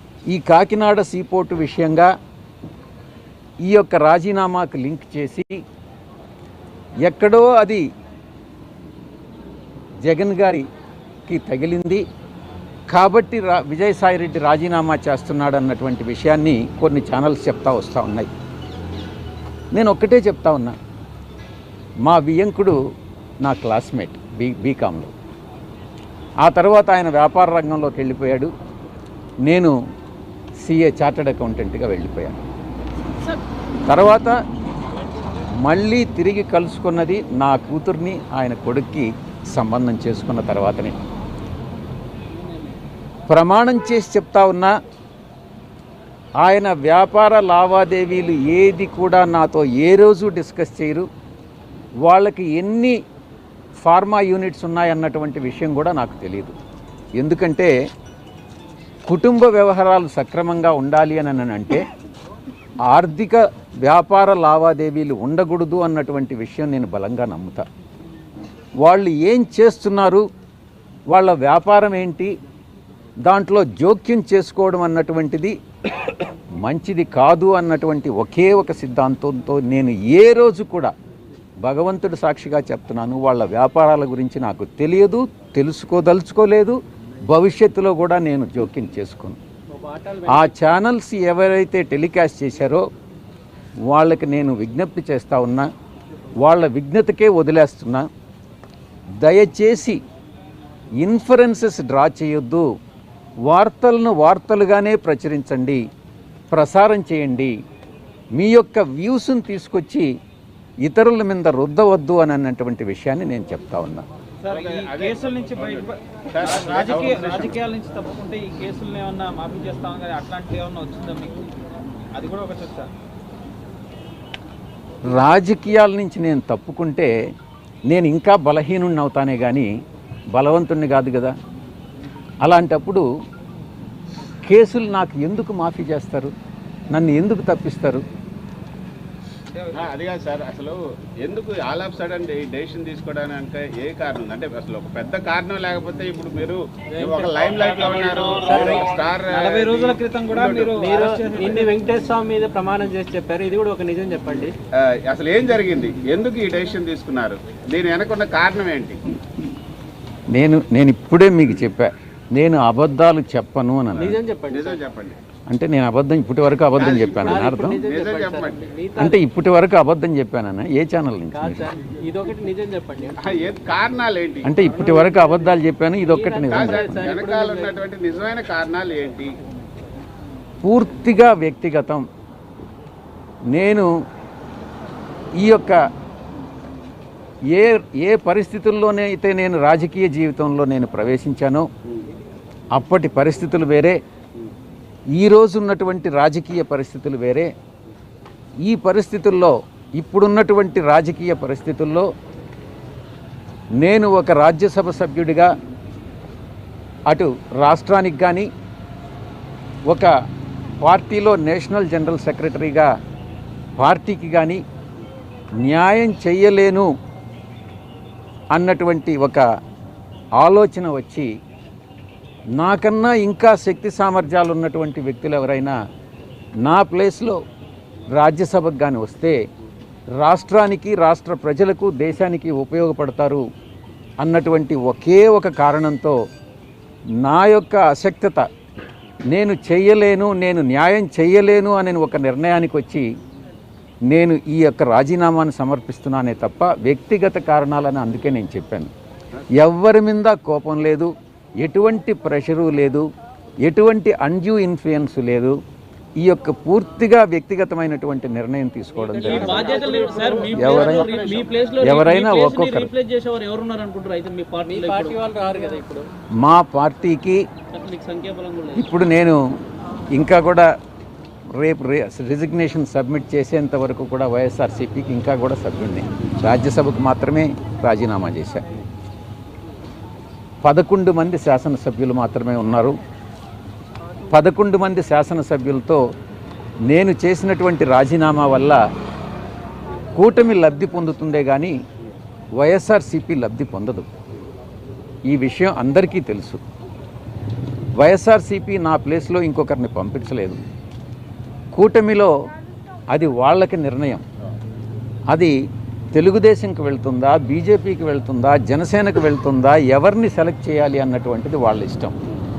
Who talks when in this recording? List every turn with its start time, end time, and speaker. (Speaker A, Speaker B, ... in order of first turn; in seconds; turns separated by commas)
Speaker A: 0.3-2.1, Speaker A: 3.6-5.5, Speaker A: 7.1-7.8, Speaker A: 10.0-10.7, Speaker A: 11.3-12.0, Speaker A: 12.9-18.3, Speaker A: 19.7-20.8, Speaker A: 22.1-22.8, Speaker A: 23.4-25.1, Speaker A: 26.4-28.5, Speaker A: 29.5-29.8, Speaker A: 30.6-32.4, Speaker A: 33.9-34.4, Speaker A: 35.6-41.0, Speaker A: 43.3-44.7, Speaker A: 46.4-51.1, Speaker A: 52.0-53.0, Speaker A: 53.8-56.6, Speaker A: 57.2-57.7, Speaker A: 59.1-61.8, Speaker A: 62.9-67.6, Speaker A: 68.8-70.2, Speaker A: 71.1-72.3, Speaker A: 73.3-75.5, Speaker A: 76.6-80.9, Speaker A: 81.6-89.4, Speaker B: 89.8-90.5, Speaker A: 90.3-92.8, Speaker A: 93.9-95.7, Speaker A: 96.4-98.1, Speaker A: 99.2-100.0, Speaker A: 101.0-102.7, Speaker A: 103.5-105.8, Speaker A: 106.5-107.5, Speaker A: 108.4-110.1, Speaker A: 110.8-114.1, Speaker C: 114.4-121.5, Speaker D: 114.5-117.6, Speaker C: 122.1-122.9, Speaker A: 125.1-127.1, Speaker A: 127.9-129.7, Speaker A: 130.4-131.3, Speaker A: 132.4-133.1, Speaker A: 134.5-136.3, Speaker A: 136.9-138.0, Speaker D: 139.7-151.5, Speaker B: 147.0-147.4, Speaker C: 147.5-151.9, Speaker B: 148.4-148.8, Speaker B: 150.8-154.5, Speaker D: 154.8-159.0, Speaker A: 160.3-164.2, Speaker D: 164.0-165.2, Speaker B: 164.1-164.8, Speaker A: 165.5-167.8, Speaker D: 166.8-168.6, Speaker B: 167.2-169.2, Speaker A: 169.0-171.7, Speaker B: 171.4-173.1, Speaker D: 173.2-174.5, Speaker A: 174.4-177.2, Speaker B: 174.7-175.5, Speaker B: 176.1-177.8, Speaker D: 176.5-179.3, Speaker A: 180.6-182.0, Speaker A: 183.5-183.9, Speaker A: 185.4-185.8, Speaker A: 187.5-191.7, Speaker A: 192.8-194.0, Speaker A: 195.2-197.5, Speaker A: 198.7-202.1, Speaker A: 203.8-205.5, Speaker A: 207.1-208.5, Speaker A: 210.8-212.9, Speaker A: 213.8-214.6, Speaker A: 215.6-216.9, Speaker A: 218.5-219.4, Speaker A: 220.4-221.3, Speaker A: 222.6-225.8, Speaker A: 226.7-227.4, Speaker A: 228.2-229.4, Speaker A: 230.2-233.4, Speaker A: 234.2-236.2, Speaker A: 237.2-238.4, Speaker A: 239.3-243.1, Speaker A: 244.1-248.9, Speaker A: 249.6-251.1, Speaker A: 251.6-253.1, Speaker A: 253.6-255.6, Speaker A: 256.2-259.8, Speaker B: 259.1-261.3, Speaker C: 259.2-265.2, Speaker D: 259.7-261.4, Speaker A: 260.5-261.2, Speaker A: 261.8-262.9, Speaker B: 264.7-266.1, Speaker A: 266.4-267.4, Speaker C: 267.7-268.7, Speaker A: 268.8-269.4, Speaker A: 270.1-270.7, Speaker A: 271.6-278.6, Speaker A: 280.6-283.0, Speaker A: 284.3-286.0, Speaker A: 286.9-288.8, Speaker A: 290.2-291.8, Speaker A: 292.6-294.1, Speaker A: 295.3-296.6, Speaker A: 298.0-300.6, Speaker A: 301.7-302.3, Speaker A: 303.1-304.2, Speaker A: 305.3-305.6, Speaker A: 306.1-312.1